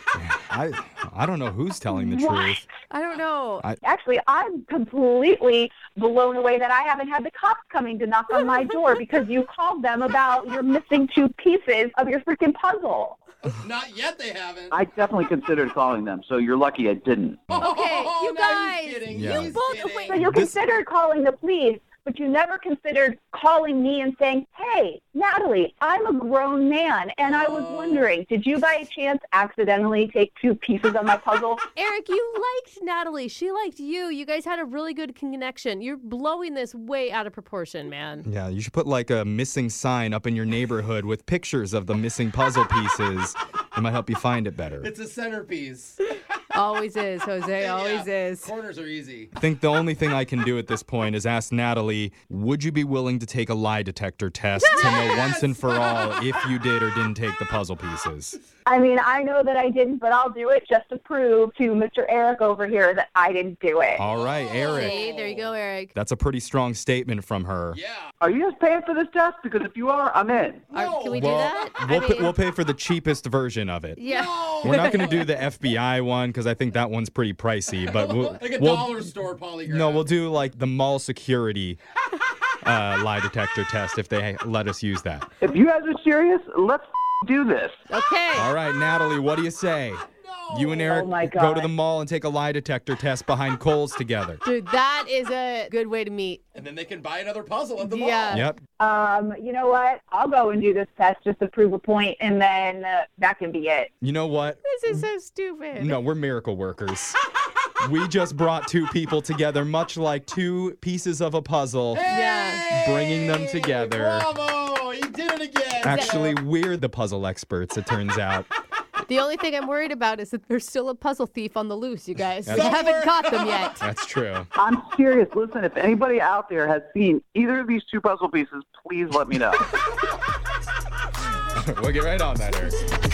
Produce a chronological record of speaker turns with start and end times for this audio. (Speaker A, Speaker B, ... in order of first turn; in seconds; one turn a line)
Speaker A: 0.1-2.6
Speaker B: 2.1-2.6
Speaker C: 2.9-3.6
Speaker B: 3.8-13.2
Speaker D: 13.5-14.8
Speaker E: 14.7-17.6
Speaker D: 17.6-20.2
Speaker C: 17.6-20.2
Speaker A: 19.1-19.5
Speaker B: 19.9-31.6
Speaker A: 20.1-20.6
Speaker D: 27.2-28.1
Speaker C: 31.8-38.2
Speaker A: 38.2-44.9
Speaker D: 44.8-46.1
Speaker C: 46.5-48.5
Speaker D: 47.5-49.3
Speaker A: 49.4-58.4
Speaker C: 54.6-55.1
Speaker D: 54.7-56.2
Speaker B: 58.6-64.0
Speaker A: 64.0-65.1
Speaker D: 64.0-65.5
Speaker C: 64.6-65.9
Speaker A: 66.0-67.8
Speaker D: 67.7-68.1
Speaker E: 68.2-70.6
Speaker D: 70.7-71.8
Speaker C: 70.7-72.3
Speaker A: 71.1-74.0
Speaker C: 74.0-75.2
Speaker D: 74.0-75.3
Speaker A: 74.6-79.0
Speaker D: 77.9-80.1
Speaker A: 79.6-81.8
Speaker A: 82.6-85.3
Speaker E: 85.4-87.8
Speaker C: 87.9-88.5
Speaker A: 88.3-94.4
Speaker D: 90.2-90.9
Speaker B: 90.9-91.7
Speaker C: 94.4-96.4
Speaker D: 96.5-98.5
Speaker C: 97.8-98.5
Speaker A: 98.3-98.6
Speaker B: 98.8-103.9
Speaker A: 104.0-105.0
Speaker C: 104.6-106.0
Speaker A: 105.8-107.2
Speaker A: 107.8-112.1
Speaker D: 111.9-116.4
Speaker C: 112.1-112.6
Speaker A: 112.7-114.3
Speaker A: 115.8-118.5
Speaker C: 115.9-116.2
Speaker C: 119.0-123.8
Speaker A: 122.5-122.8
Speaker D: 122.5-123.8
Speaker A: 123.8-124.5
Speaker E: 124.6-129.7
Speaker A: 131.5-132.8